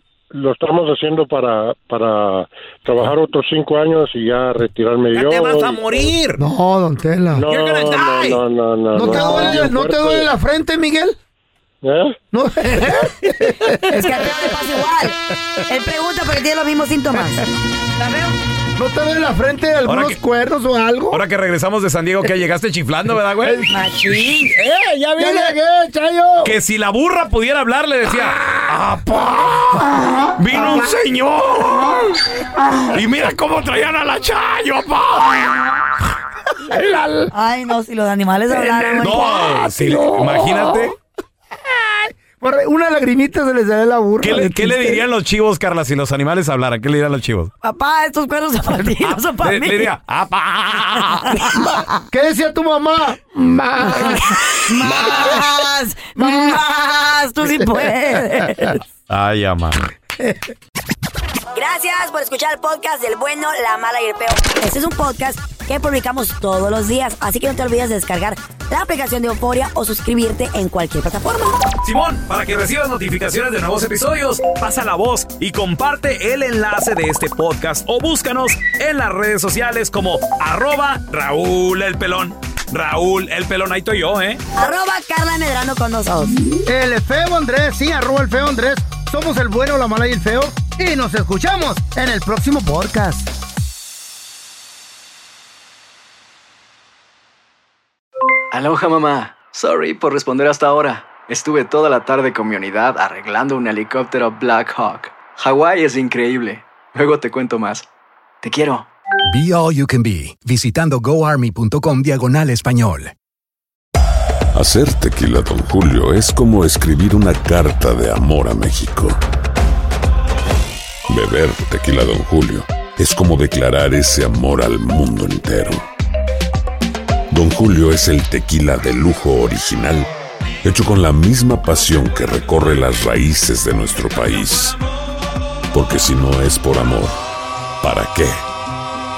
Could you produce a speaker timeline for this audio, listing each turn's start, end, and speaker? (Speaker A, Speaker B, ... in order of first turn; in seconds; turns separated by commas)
Speaker A: 0.3-6.1, Speaker B: 5.1-6.4, Speaker C: 6.3-7.5, Speaker A: 7.3-10.3, Speaker B: 7.5-8.4, Speaker C: 8.9-11.2, Speaker D: 9.1-9.7, Speaker A: 11.8-12.2, Speaker C: 12.3-14.3, Speaker D: 13.8-17.4, Speaker D: 18.0-18.4, Speaker C: 18.8-21.2, Speaker B: 19.9-20.2, Speaker B: 21.1-23.7, Speaker C: 23.4-23.7, Speaker D: 23.7-24.5, Speaker B: 24.3-25.6, Speaker C: 25.1-26.6, Speaker B: 26.4-29.8, Speaker C: 28.3-30.9, Speaker B: 30.4-32.2, Speaker B: 32.9-35.5, Speaker C: 36.6-37.3, Speaker D: 37.3-39.5, Speaker C: 38.6-40.9, Speaker B: 39.0-41.0, Speaker C: 41.7-45.0, Speaker B: 44.2-47.5, Speaker D: 47.6-49.9, Speaker B: 49.1-51.5, Speaker D: 51.1-51.8, Speaker C: 51.5-55.4, Speaker D: 54.0-58.8, Speaker C: 56.1-56.6, Speaker C: 57.4-58.7, Speaker B: 59.1-59.8, Speaker D: 61.5-71.6, Speaker B: 71.8-84.4, Speaker D: 84.5-86.4, Speaker C: 86.6-93.3, Speaker E: 98.5-107.8, Speaker E: 108.4-108.9, Speaker F: 109.3-113.1, Speaker G: 114.5-119.2, Speaker G: 121.1-125.8, Speaker G: 127.3-130.1, Speaker G: 130.6-134.8, Speaker G: 135.7-137.2, Speaker G: 137.8-138.4